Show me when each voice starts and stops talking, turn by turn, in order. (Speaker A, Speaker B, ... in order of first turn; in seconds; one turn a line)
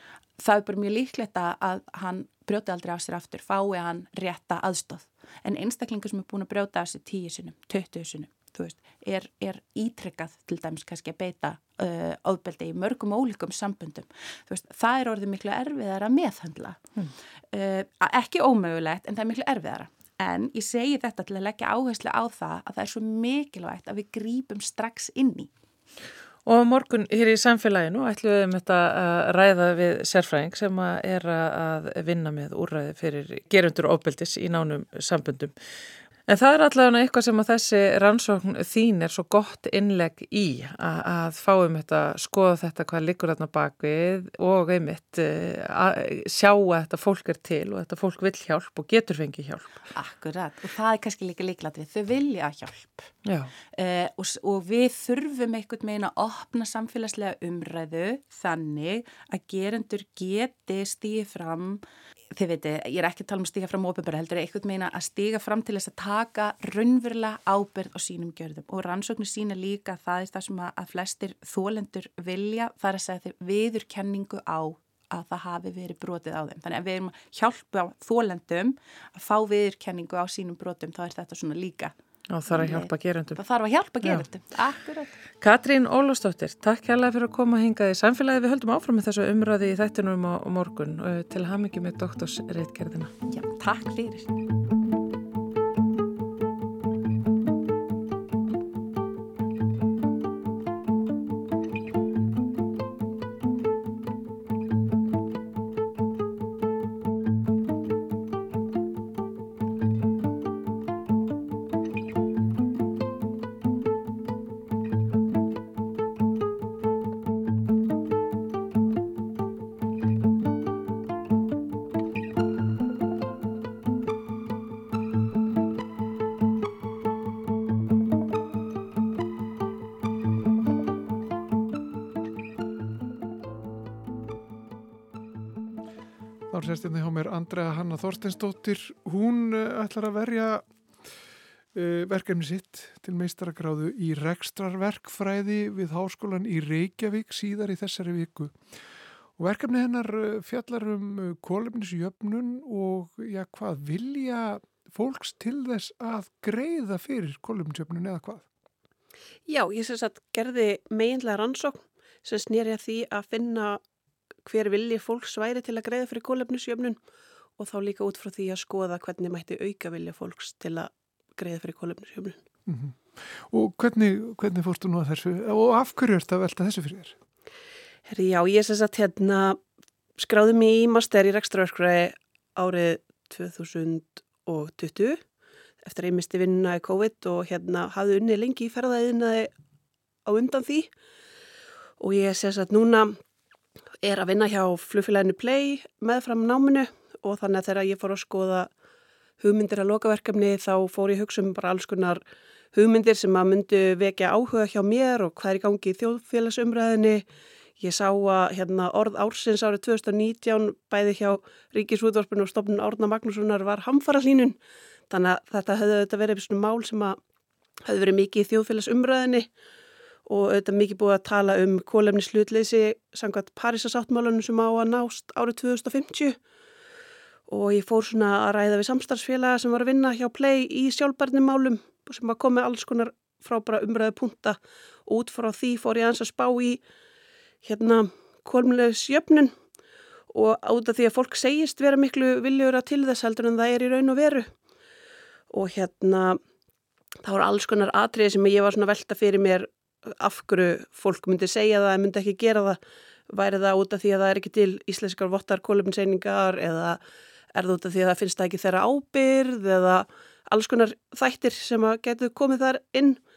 Speaker A: 0.4-16.8
Speaker A: 17.5-25.5
Speaker B: 26.5-35.5
Speaker B: 36.3-49.8
Speaker A: 50.0-53.1
Speaker B: 53.2-53.5
Speaker A: 53.7-61.8
Speaker A: 62.3-81.9
Speaker B: 82.3-83.4
Speaker A: 82.5-85.2
Speaker B: 85.4-93.1
Speaker A: 93.3-94.3
Speaker C: 136.5-140.7
Speaker C: 141.7-148.6
Speaker C: 149.4-158.4
Speaker D: 159.5-163.8
Speaker D: 164.5-167.0
Speaker D: 167.6-172.4
Speaker C: 172.7-177.2
Speaker D: 178.1-179.6
Speaker D: 180.2-185.2
Speaker D: 185.8-189.5
Speaker D: 190.2-190.9
Speaker D: 192.0-193.2
Speaker D: 194.0-198.7
Speaker D: 199.4-207.2
Speaker D: 207.8-214.6
Speaker D: 215.1-217.2
Speaker D: 217.8-219.5
Speaker D: 220.3-226.4
Speaker D: 227.5-236.8
Speaker D: 237.6-239.5
Speaker D: 240.3-244.5
Speaker D: 245.5-246.4
Speaker D: 247.2-257.0
Speaker D: 257.5-263.2